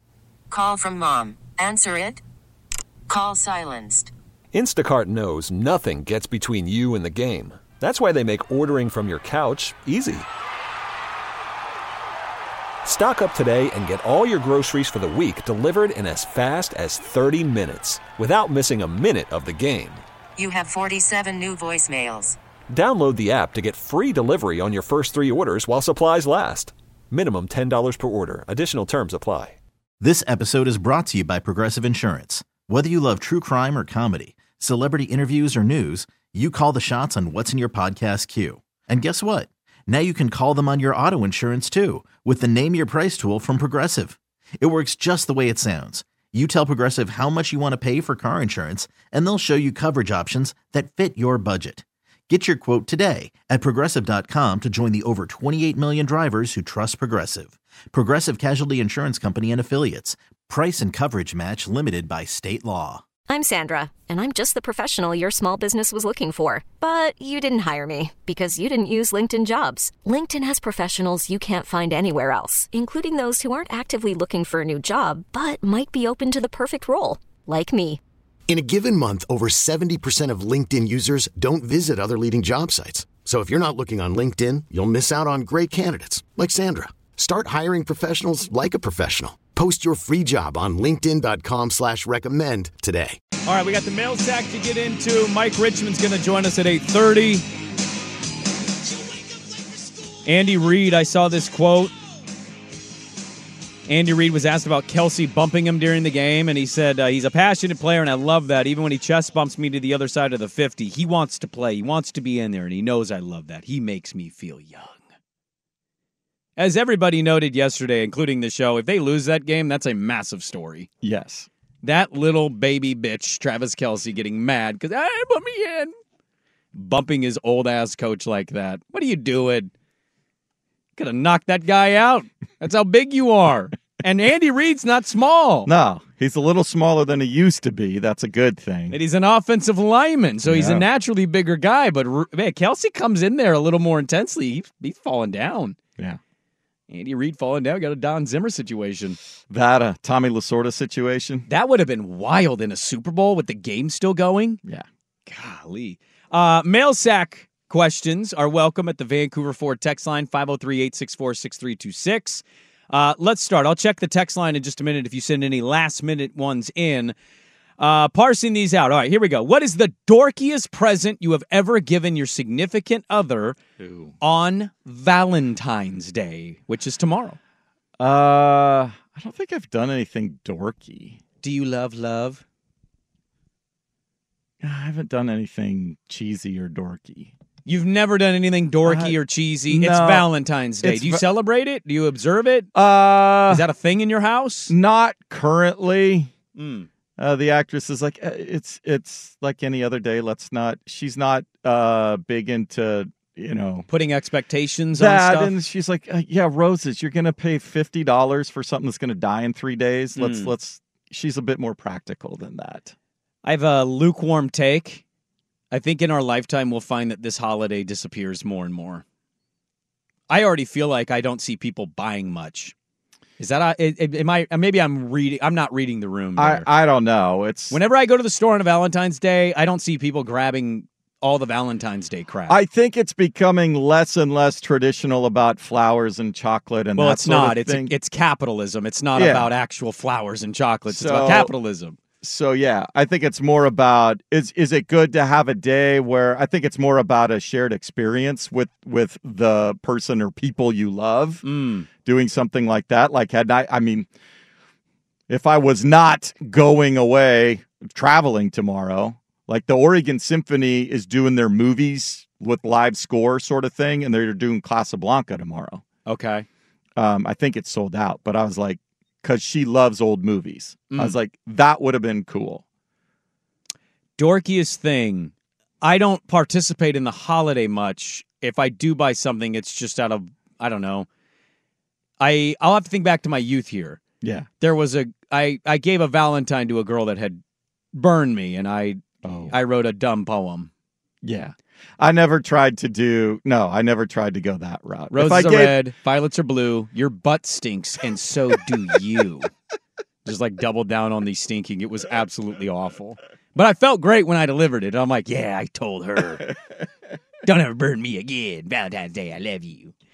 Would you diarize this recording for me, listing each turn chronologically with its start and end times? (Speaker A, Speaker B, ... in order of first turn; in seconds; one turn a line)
Speaker A: 0.5-2.2
Speaker A: 3.1-4.1
Speaker B: 4.5-10.2
Speaker B: 12.8-20.0
Speaker A: 20.4-22.4
Speaker B: 22.7-29.6
Speaker C: 30.0-63.0
Speaker D: 63.3-78.0
Speaker E: 78.5-93.2
Speaker F: 93.5-97.4
Speaker F: 100.2-101.9
Speaker F: 103.9-115.0
Speaker F: 116.6-120.9
Speaker G: 121.0-121.5
Speaker F: 121.8-125.9
Speaker F: 126.7-129.7
Speaker F: 131.0-135.7
Speaker G: 135.7-138.9
Speaker F: 138.9-145.8
Speaker G: 140.4-140.8
Speaker F: 146.9-149.2
Speaker G: 149.5-151.4
Speaker F: 151.5-154.6
Speaker F: 155.3-167.1
Speaker F: 167.8-173.6
Speaker G: 173.8-174.1
Speaker F: 174.2-177.4
Speaker G: 178.0-181.2
Speaker F: 181.4-182.4
Speaker G: 184.6-187.3
Speaker F: 187.7-192.7
Speaker G: 188.8-189.2
Speaker G: 189.7-190.3
Speaker G: 190.8-191.2
Speaker G: 192.7-193.6
Speaker F: 193.5-194.7
Speaker G: 194.7-196.3
Speaker F: 196.6-196.9
Speaker G: 197.2-203.9
Speaker F: 203.9-205.5
Speaker G: 204.9-212.9
Speaker F: 210.1-210.5
Speaker F: 213.4-215.0
Speaker F: 215.7-219.0
Speaker F: 220.3-222.7
Speaker F: 223.4-226.7
Speaker G: 226.4-227.8
Speaker F: 227.7-232.6
Speaker G: 232.5-237.9
Speaker F: 237.0-242.0
Speaker G: 239.2-239.5
Speaker G: 240.9-241.5
Speaker G: 242.2-251.4
Speaker F: 251.4-251.9
Speaker G: 252.0-254.1
Speaker G: 255.3-265.8
Speaker F: 266.1-266.4
Speaker G: 267.0-272.6
Speaker F: 270.9-271.1
Speaker F: 274.2-281.1
Speaker F: 282.2-284.0
Speaker G: 284.2-284.5
Speaker F: 284.6-287.4
Speaker F: 287.9-290.7
Speaker G: 289.2-289.5
Speaker G: 291.2-295.8
Speaker F: 295.1-299.5
Speaker F: 300.2-306.4
Speaker F: 307.4-309.9